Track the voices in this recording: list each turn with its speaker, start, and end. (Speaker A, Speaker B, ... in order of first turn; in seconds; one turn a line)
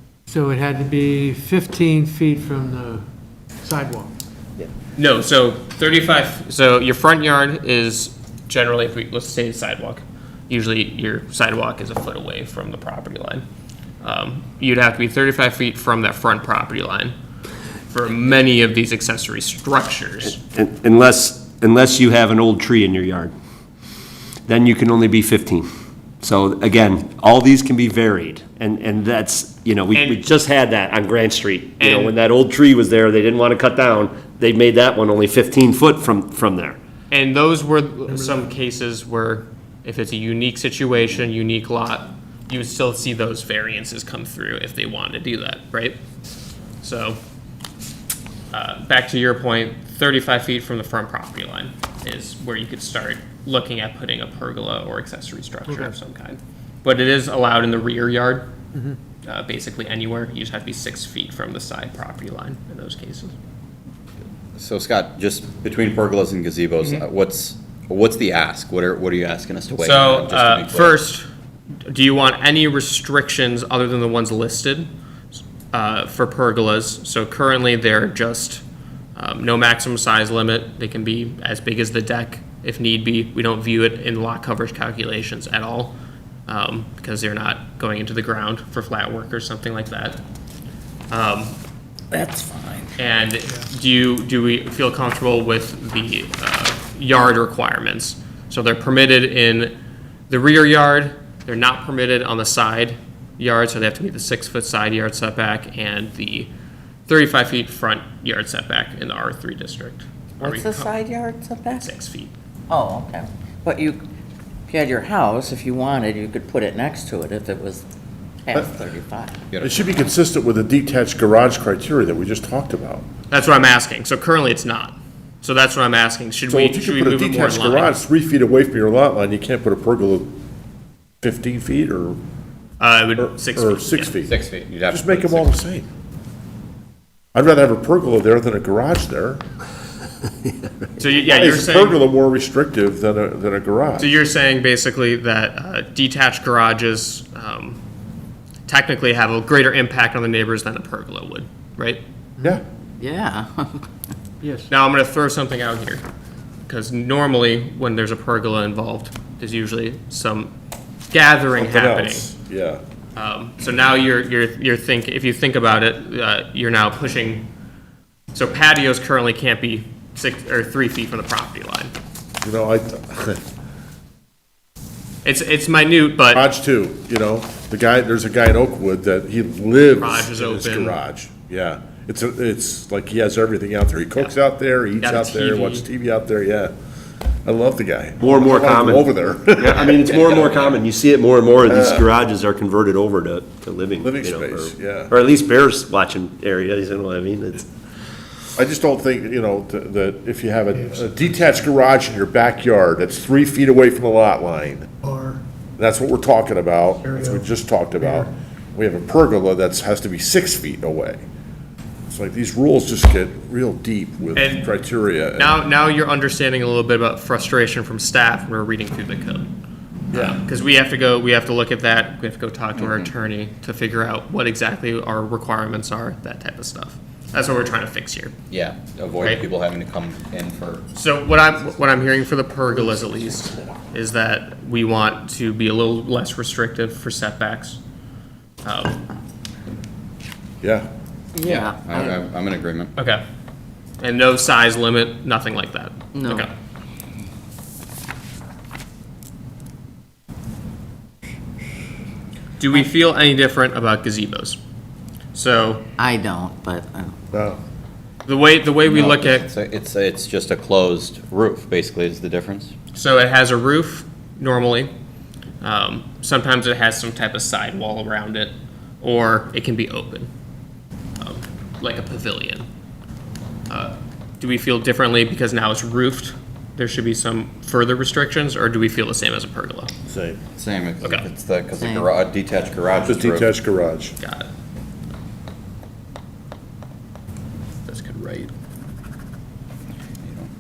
Speaker A: 0.3-3.0
Speaker A: 3.6-4.1
Speaker B: 5.0-13.4
Speaker B: 14.0-17.1
Speaker B: 17.9-20.4
Speaker C: 20.5-23.3
Speaker C: 24.5-25.7
Speaker C: 26.2-36.8
Speaker B: 29.9-30.2
Speaker B: 31.8-32.2
Speaker B: 37.1-46.0
Speaker B: 46.8-47.2
Speaker B: 48.5-58.5
Speaker B: 59.2-63.3
Speaker D: 64.6-71.0
Speaker B: 69.8-71.3
Speaker B: 71.8-74.9
Speaker B: 75.7-78.6
Speaker B: 79.2-86.0
Speaker B: 86.5-90.2
Speaker B: 91.1-91.6
Speaker D: 92.1-93.0
Speaker B: 93.0-99.8
Speaker B: 100.3-106.5
Speaker B: 107.1-111.0
Speaker E: 110.4-111.9
Speaker B: 111.8-112.3
Speaker E: 112.7-114.0
Speaker E: 114.7-117.8
Speaker E: 118.4-119.5
Speaker D: 119.5-120.0
Speaker F: 119.6-123.1
Speaker B: 123.3-128.0
Speaker F: 126.5-130.3
Speaker F: 131.2-132.2
Speaker B: 132.8-134.1
Speaker F: 133.2-134.4
Speaker D: 134.2-135.6
Speaker F: 134.9-135.9
Speaker F: 137.3-139.4
Speaker B: 141.0-142.0
Speaker F: 141.2-144.1
Speaker B: 144.0-147.8
Speaker B: 148.7-152.0
Speaker E: 153.0-153.9
Speaker B: 154.7-156.0
Speaker B: 156.7-160.5
Speaker B: 161.1-162.3
Speaker F: 161.6-162.8
Speaker B: 163.2-167.5
Speaker B: 168.3-171.9
Speaker F: 172.4-173.4
Speaker B: 175.2-176.5
Speaker F: 176.3-186.7
Speaker B: 179.9-181.0
Speaker B: 185.0-185.9
Speaker F: 187.4-189.9
Speaker C: 188.2-189.1
Speaker D: 189.6-190.8
Speaker C: 189.6-197.7
Speaker F: 191.6-192.1
Speaker F: 194.0-195.1
Speaker F: 198.6-204.9
Speaker F: 205.8-211.2
Speaker F: 212.1-215.6
Speaker B: 214.3-214.7
Speaker B: 215.4-219.5
Speaker F: 220.1-220.4
Speaker B: 220.1-228.3
Speaker D: 222.8-223.1
Speaker D: 228.5-230.8
Speaker B: 229.2-229.5
Speaker B: 230.9-237.8
Speaker B: 238.6-239.1
Speaker F: 240.6-240.9
Speaker E: 241.3-242.2
Speaker D: 241.4-242.9
Speaker B: 244.0-246.5
Speaker E: 246.1-246.5
Speaker B: 252.6-254.6
Speaker B: 255.3-255.8
Speaker E: 256.0-257.2
Speaker F: 257.3-257.6
Speaker B: 258.3-259.5
Speaker D: 258.9-262.7
Speaker B: 262.9-264.9
Speaker B: 265.6-270.3
Speaker B: 271.2-272.7
Speaker B: 273.7-279.9
Speaker F: 280.1-280.4
Speaker D: 280.6-283.6
Speaker B: 281.0-281.3
Speaker E: 281.8-282.1
Speaker F: 283.0-284.1
Speaker B: 284.2-284.5
Speaker B: 287.9-288.5
Speaker D: 290.2-290.5